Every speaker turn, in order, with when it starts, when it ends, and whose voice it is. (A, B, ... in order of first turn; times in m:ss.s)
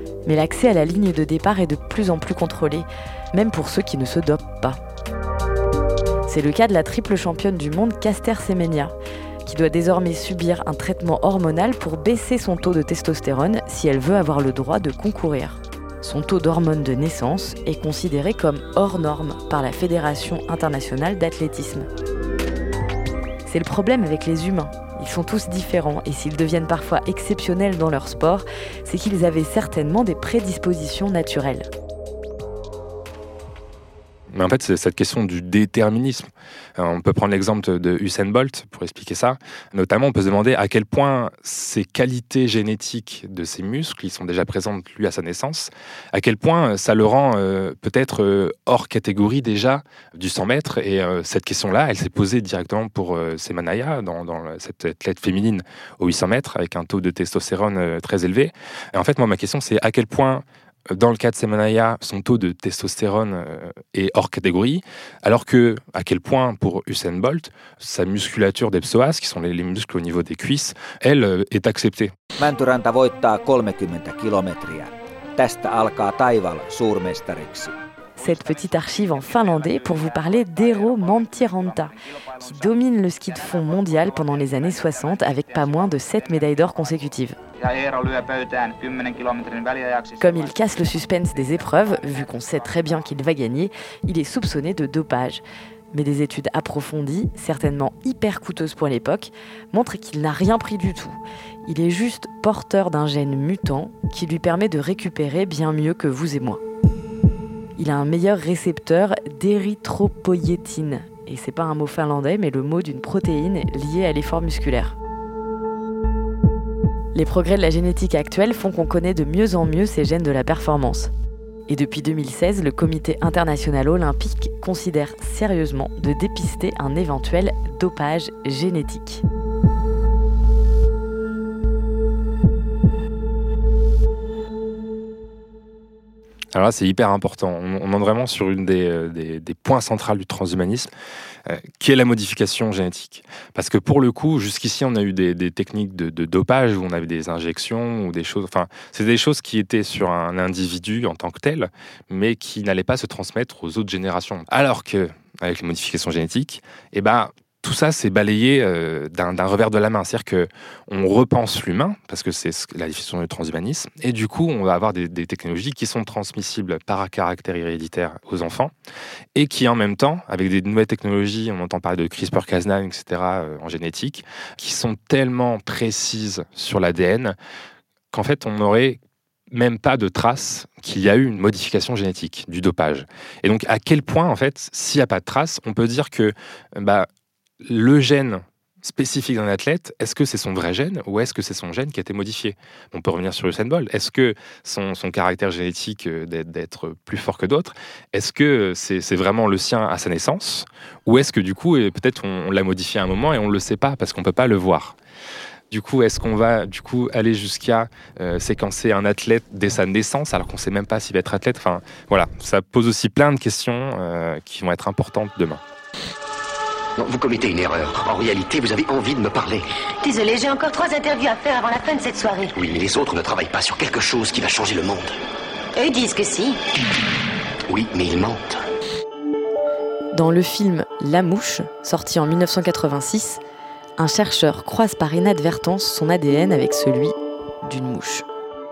0:00.2-0:04.8 A
0:06.3-0:21.8 A
0:23.4-0:31.7 A
0:34.3-1:12.1 B
1:12.4-1:17.7 C
1:18.2-1:27.4 A
1:30.2-1:35.4 A
1:35.9-1:46.6 A
1:47.8-1:55.0 A
1:57.1-2:01.1 A
2:01.7-2:09.2 A
2:16.5-2:20.9 B
2:21.5-2:48.7 B
2:49.3-2:57.4 B
2:58.1-2:59.0 B
2:59.5-3:07.1 B
3:07.6-3:25.0 B
3:25.7-3:35.6 B
3:37.0-3:39.7 D
3:40.0-3:42.6 E
3:42.5-3:45.2 D
3:45.7-3:46.6 E
3:47.7-3:48.6 D
3:50.1-3:53.4 A
3:54.0-3:58.2 A